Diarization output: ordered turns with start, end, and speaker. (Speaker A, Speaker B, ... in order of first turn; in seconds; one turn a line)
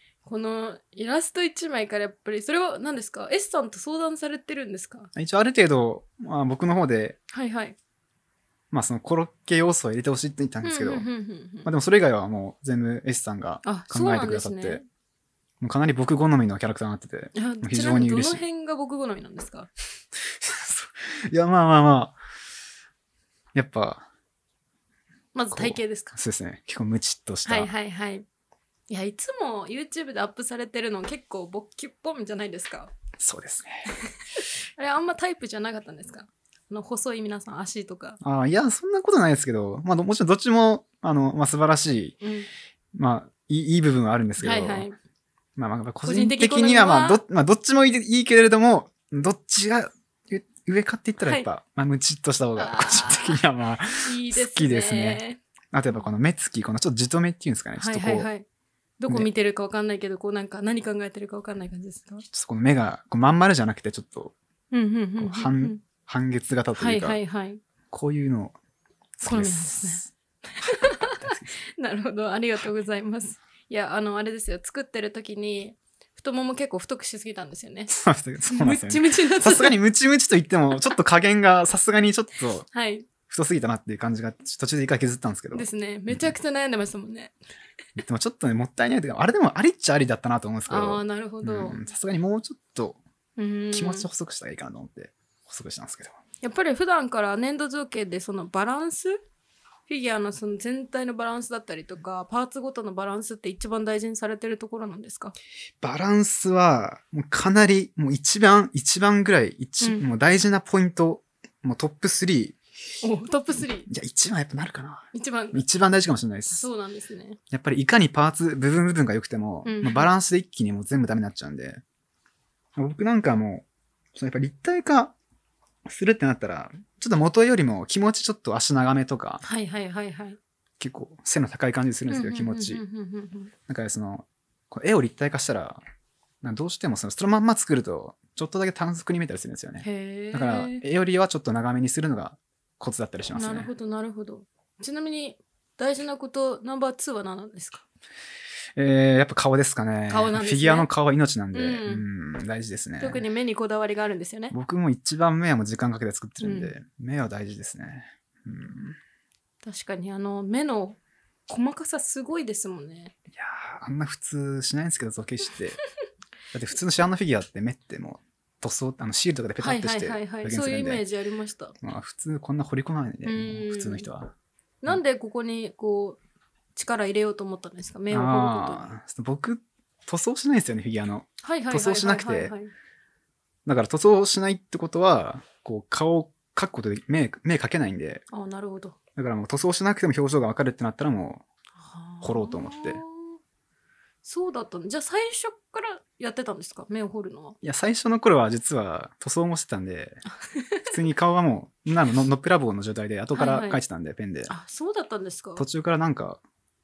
Speaker A: 0.3-5.1
Speaker B: 5.2-7.2
Speaker A: 7.3-7.8
Speaker B: 8.7-11.1
Speaker A: 10.6-11.7
Speaker B: 11.6-14.8
Speaker A: 13.7-14.8
Speaker B: 15.6-18.4
Speaker A: 17.4-19.7
Speaker B: 20.3-22.2
Speaker B: 23.6-24.1
Speaker A: 25.3-26.1
Speaker B: 25.5-27.7
Speaker A: 27.4-28.2
Speaker A: 28.9-32.9
Speaker B: 33.2-33.9
Speaker A: 34.4-38.2
Speaker B: 38.2-42.2
Speaker A: 42.2-42.5
Speaker B: 43.0-44.9
Speaker A: 44.4-45.0
Speaker B: 45.6-58.3
Speaker A: 46.0-47.2
Speaker A: 51.2-51.5
Speaker A: 52.6-53.4
Speaker A: 54.0-55.4
Speaker A: 57.8-58.5
Speaker A: 59.0-62.2
Speaker B: 62.3-64.3
Speaker A: 64.7-65.8
Speaker B: 65.2-67.2
Speaker A: 66.8-67.6
Speaker B: 67.9-68.5
Speaker B: 69.2-71.6
Speaker A: 69.2-70.1
Speaker A: 70.6-77.9
Speaker B: 77.9-82.7
Speaker A: 78.5-79.8
Speaker A: 82.7-83.1
Speaker B: 83.3-86.3
Speaker A: 85.5-87.3
Speaker B: 88.0-93.0
Speaker A: 90.7-91.8
Speaker A: 93.4-94.1
Speaker B: 93.7-96.2
Speaker A: 96.4-99.2
Speaker A: 99.9-105.3
Speaker B: 105.8-112.6
Speaker A: 109.8-110.1
Speaker A: 113.0-113.9
Speaker B: 113.9-116.7
Speaker A: 115.1-115.6
Speaker A: 116.5-117.4
Speaker B: 117.5-121.8
Speaker A: 119.6-120.1
Speaker B: 122.8-125.2
Speaker B: 125.9-129.4
Speaker A: 129.4-130.4
Speaker B: 130.8-132.8
Speaker A: 132.1-133.5
Speaker B: 133.7-135.8
Speaker B: 136.4-143.7
Speaker A: 139.8-140.8
Speaker A: 143.3-147.8
Speaker B: 148.8-153.2
Speaker A: 150.1-150.9
Speaker A: 151.5-152.1
Speaker A: 153.0-154.6
Speaker B: 154.5-159.0
Speaker A: 156.4-156.7
Speaker A: 159.6-163.1
Speaker B: 163.3-165.8
Speaker B: 166.5-171.0
Speaker A: 169.6-171.8
Speaker B: 171.8-174.3
Speaker A: 173.2-174.1
Speaker A: 174.8-176.2
Speaker A: 176.8-178.8
Speaker B: 178.1-182.5
Speaker A: 181.4-182.7
Speaker B: 183.7-188.2
Speaker A: 188.3-189.0
Speaker B: 189.2-191.4
Speaker A: 191.8-193.4
Speaker B: 192.2-193.0
Speaker A: 194.2-197.6
Speaker B: 197.6-200.2
Speaker A: 200.5-200.8
Speaker B: 200.9-204.5
Speaker A: 203.3-203.8
Speaker A: 204.5-205.7
Speaker B: 205.6-206.4